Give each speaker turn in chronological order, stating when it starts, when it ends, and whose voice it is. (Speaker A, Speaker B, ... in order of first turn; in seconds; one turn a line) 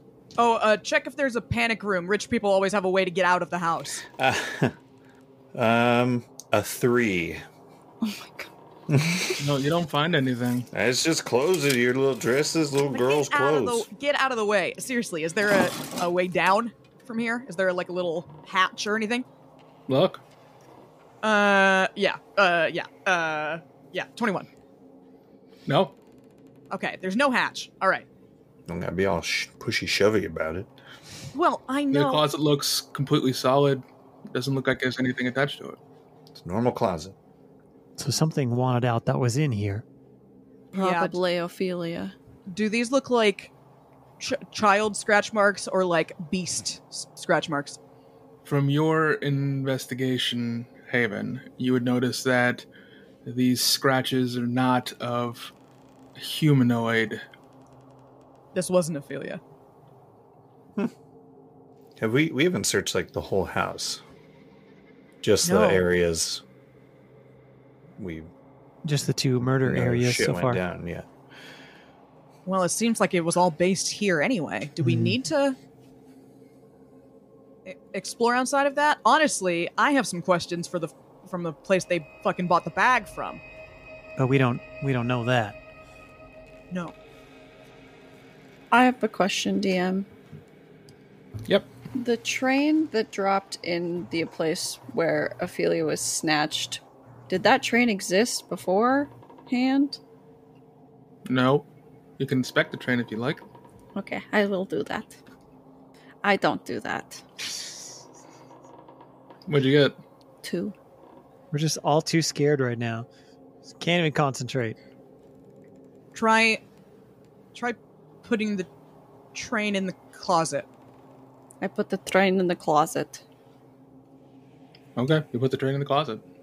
Speaker A: 0.4-4.0
Speaker B: 4.2-4.8
Speaker B: 5.5-7.4
Speaker C: 8.0-8.5
Speaker B: 8.9-9.3
Speaker D: 9.4-10.7
Speaker B: 10.7-13.9
Speaker A: 12.9-19.3
Speaker D: 19.9-20.2
Speaker A: 21.2-24.5
Speaker D: 25.7-25.9
Speaker A: 26.7-28.1
Speaker B: 28.7-30.7
Speaker A: 31.3-32.3
Speaker D: 31.9-35.8
Speaker B: 36.3-37.1
Speaker E: 38.0-39.8
Speaker C: 40.7-42.1
Speaker A: 40.8-41.1
Speaker A: 42.5-43.5
Speaker A: 44.2-47.8
Speaker D: 48.4-52.7
Speaker D: 53.2-55.5
Speaker D: 56.2-57.2
Speaker A: 58.5-59.4
Speaker B: 62.0-64.0
Speaker B: 65.2-66.4
Speaker A: 65.5-65.8
Speaker B: 68.0-68.3
Speaker E: 68.8-70.6
Speaker B: 69.5-71.1
Speaker A: 72.5-75.6
Speaker E: 74.8-75.2
Speaker A: 77.7-83.4
Speaker E: 84.2-85.6
Speaker C: 88.7-90.1
Speaker C: 92.0-100.0
Speaker D: 101.3-103.4
Speaker C: 104.0-105.2
Speaker C: 106.2-107.6
Speaker D: 109.5-110.0
Speaker C: 110.4-110.7
Speaker E: 111.5-113.1
Speaker E: 113.7-114.8
Speaker A: 116.1-116.6
Speaker A: 117.5-118.7
Speaker A: 119.3-120.7
Speaker C: 121.6-123.2
Speaker D: 125.0-126.2